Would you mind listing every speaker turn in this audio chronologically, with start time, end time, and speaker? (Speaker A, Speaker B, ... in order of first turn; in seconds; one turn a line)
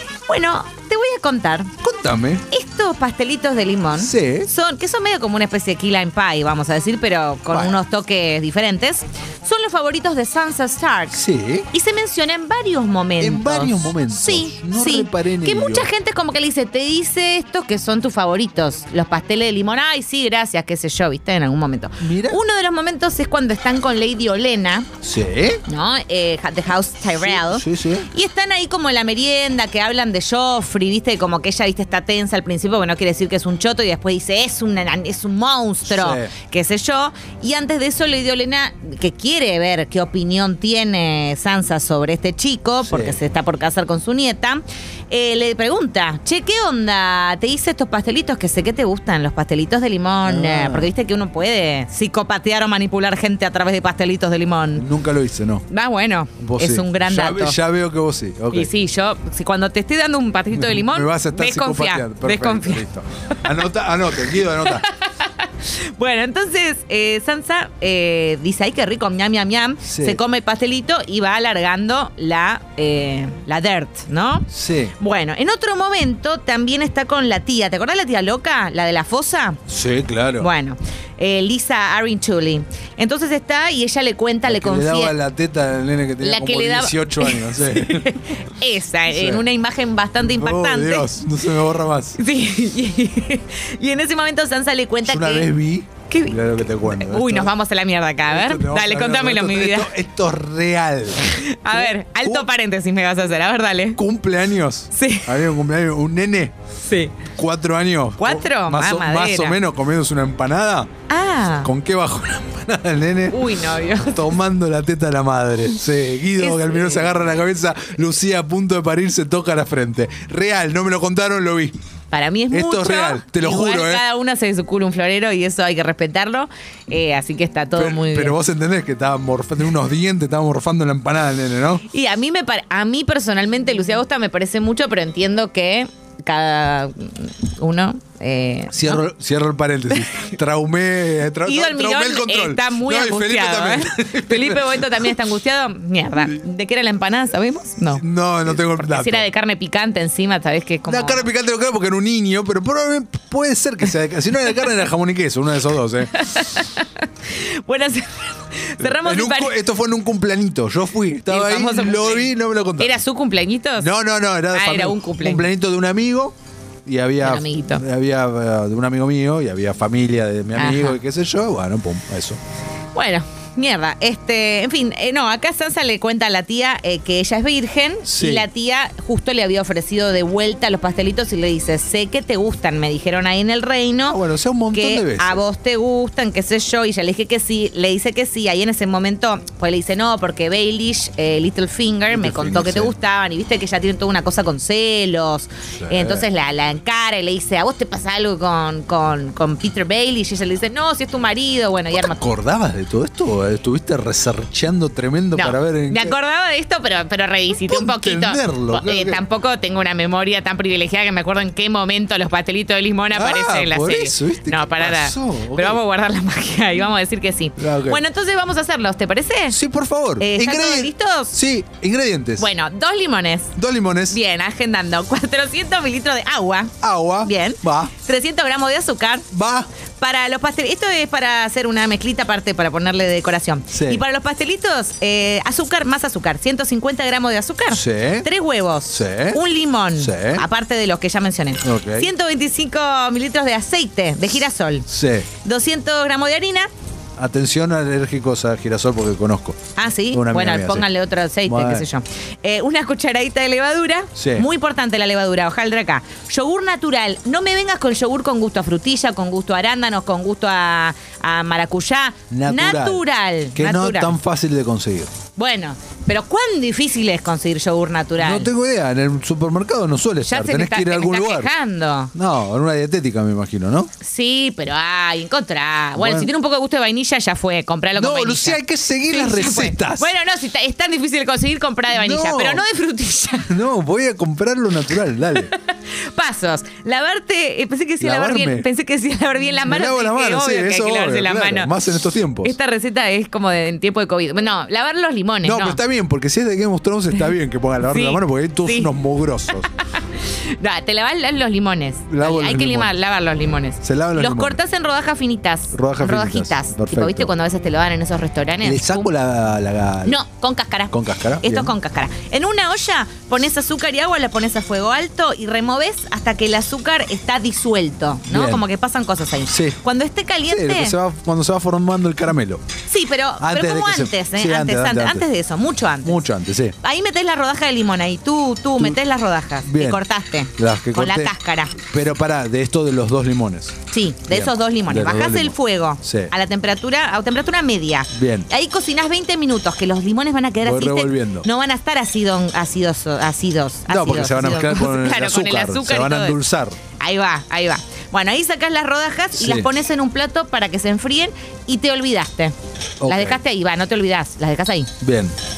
Speaker A: 0.3-1.7
Speaker B: 1.8-2.4
Speaker A: 2.5-11.2
Speaker B: 4.0-4.5
Speaker B: 7.5-7.8
Speaker B: 11.1-11.7
Speaker A: 11.7-24.9
Speaker B: 13.2-15.9
Speaker B: 22.0-22.4
Speaker B: 25.0-25.6
Speaker A: 25.7-54.8
Speaker B: 27.2-28.1
Speaker B: 35.9-36.3
Speaker B: 42.8-43.2
Speaker B: 50.2-50.9
Speaker B: 54.8-55.6
Speaker A: 55.7-57.6
Speaker B: 56.4-58.7
Speaker A: 58.5-63.5
Speaker B: 60.5-64.8
Speaker A: 64.6-79.6
Speaker B: 69.8-70.2
Speaker B: 74.5-74.9
Speaker B: 79.7-80.5
Speaker A: 80.4-85.1
Speaker B: 84.5-88.1
Speaker A: 86.2-91.2
Speaker B: 89.1-89.5
Speaker B: 90.2-92.2
Speaker A: 92.2-95.5
Speaker B: 95.0-97.5
Speaker A: 96.1-99.9
Speaker B: 98.3-102.5
Speaker A: 101.2-104.0
Speaker B: 104.0-106.5
Speaker A: 104.9-105.4
Speaker A: 106.8-107.2
Speaker B: 107.3-110.9
Speaker A: 108.2-109.6
Speaker A: 111.1-111.7
Speaker B: 111.6-121.7
Speaker A: 113.3-114.3
Speaker A: 116.3-117.1
Speaker A: 122.1-128.3
Speaker B: 122.5-124.0
Speaker B: 127.7-131.8
Speaker A: 131.9-139.0
Speaker B: 138.7-145.1
Speaker A: 139.9-140.3
Speaker A: 141.4-151.3
Speaker B: 147.9-149.2
Speaker B: 150.9-156.1
Speaker A: 156.1-159.6
Speaker B: 158.8-163.0
Speaker A: 161.3-163.9
Speaker B: 163.8-166.3
Speaker A: 164.5-165.5
Speaker B: 166.8-172.4
Speaker A: 167.2-167.8
Speaker A: 170.6-171.0
Speaker A: 172.9-184.2
Speaker B: 178.1-178.5
Speaker B: 184.1-185.4
Speaker A: 184.7-202.2
Speaker B: 192.1-192.9
Speaker B: 195.8-196.3
Speaker B: 201.9-206.1
Speaker A: 205.3-219.6
Speaker B: 207.7-209.2
Speaker B: 213.1-215.8
Speaker B: 217.6-218.0
Speaker B: 219.5-222.5
Speaker A: 220.2-221.3
Speaker A: 222.4-223.6
Speaker B: 223.6-224.2
Speaker A: 224.1-229.3
Speaker B: 226.8-227.9
Speaker B: 229.3-229.7
Speaker A: 230.0-244.9
Speaker B: 233.7-234.0
Speaker B: 237.7-238.3
Speaker B: 238.9-239.4
Speaker B: 240.0-240.4
Speaker B: 241.6-242.1
Speaker B: 244.9-245.3
Speaker A: 245.4-246.7
Speaker B: 247.2-250.9
Speaker A: 249.8-264.1
Speaker B: 251.4-251.9
Speaker B: 254.2-254.5
Speaker B: 262.3-265.1
Speaker A: 265.4-268.5
Speaker B: 268.2-271.5
Speaker A: 270.2-272.1
Speaker B: 272.1-273.9
Speaker A: 274.0-283.6
Speaker B: 275.9-276.3
Speaker B: 277.9-280.1
Speaker B: 281.9-282.6
Speaker B: 283.5-285.5
Speaker A: 285.3-291.7
Speaker B: 288.0-288.7
Speaker B: 289.6-292.5
Speaker A: 292.4-295.8
Speaker B: 295.4-299.7
Speaker A: 297.9-298.9
Speaker A: 299.8-309.1
Speaker B: 302.1-302.9
Speaker B: 303.8-304.6
Speaker B: 305.7-307.3
Speaker B: 308.6-310.2
Speaker A: 310.0-321.0
Speaker B: 310.9-311.7
Speaker B: 318.3-318.6
Speaker B: 319.5-319.8
Speaker B: 320.5-322.6
Speaker A: 322.9-326.2
Speaker B: 323.4-325.2
Speaker B: 326.0-326.7
Speaker A: 326.8-331.8
Speaker B: 329.6-330.0
Speaker B: 330.6-333.8
Speaker A: 333.9-346.4
Speaker B: 334.3-336.3
Speaker B: 338.1-338.5
Speaker B: 340.6-341.5
Speaker B: 343.9-346.8
Speaker A: 347.0-352.5
Speaker B: 349.4-349.7
Speaker B: 353.0-353.4
Speaker A: 353.1-354.9
Speaker B: 355.0-355.3